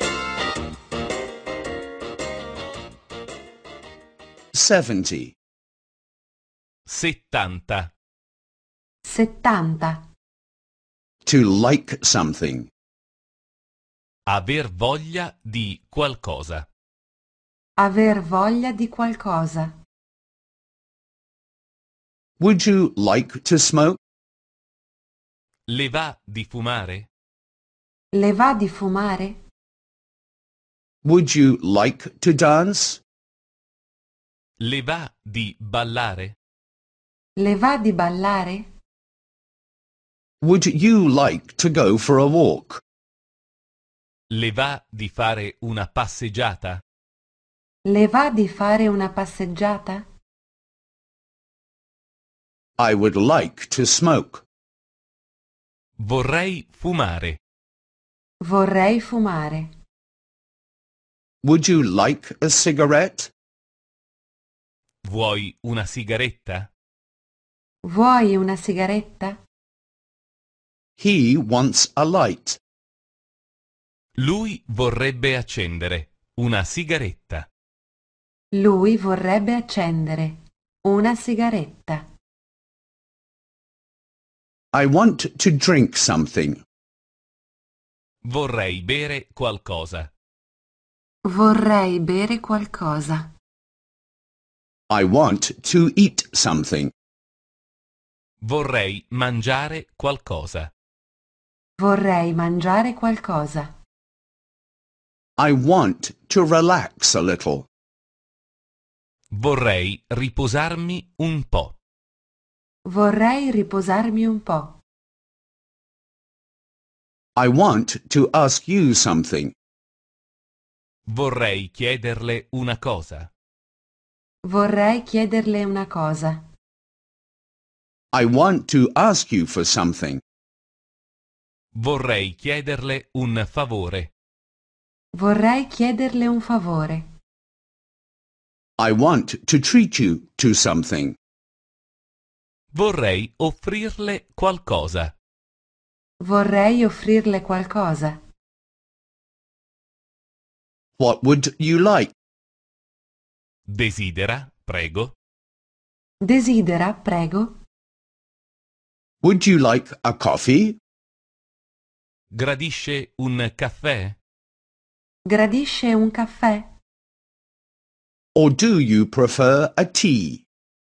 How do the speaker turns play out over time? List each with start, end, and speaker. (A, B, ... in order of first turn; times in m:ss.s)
0:04.5-0:05.4 A
0:06.9-0:07.9 B
0:09.1-0:10.1 C
0:11.2-0:12.7 A
0:14.3-0:16.7 B
0:17.8-0:19.7 C
0:22.4-0:24.0 A
0:25.7-0:27.1 B
0:28.2-0:29.4 C
0:31.0-0:33.0 A
0:34.6-0:36.4 B
0:37.4-0:38.7 C
0:40.4-0:42.8 A
0:44.3-0:46.8 B
0:47.9-0:50.0 C
0:52.8-0:54.4 A
0:56.0-0:57.4 B
0:58.4-0:59.7 C
1:01.4-1:03.3 A
1:05.0-1:06.7 B
1:07.9-1:09.4 C
1:11.0-1:12.6 A
1:14.2-1:17.5 B
1:18.6-1:22.0 C
1:24.7-1:26.6 A
1:28.2-1:30.1 B
1:31.3-1:33.3 C
1:34.9-1:36.9 A
1:38.4-1:40.7 B
1:41.8-1:43.7 C
1:45.4-1:47.7 A
1:49.3-1:51.8 B
1:52.9-1:54.8 C
1:57.4-1:59.6 A
2:01.1-2:03.3 B
2:04.5-2:06.4 C
2:08.1-2:10.2 A
2:11.7-2:14.1 B
2:15.2-2:17.0 C
2:18.8-2:21.2 A
2:22.7-2:25.1 B
2:26.2-2:28.2 C
2:31.0-2:32.1 A
2:33.7-2:35.1 B
2:36.2-2:37.6 C
2:39.2-2:40.8 A
2:42.3-2:44.2 B
2:45.3-2:46.7 C
2:48.4-2:50.4 A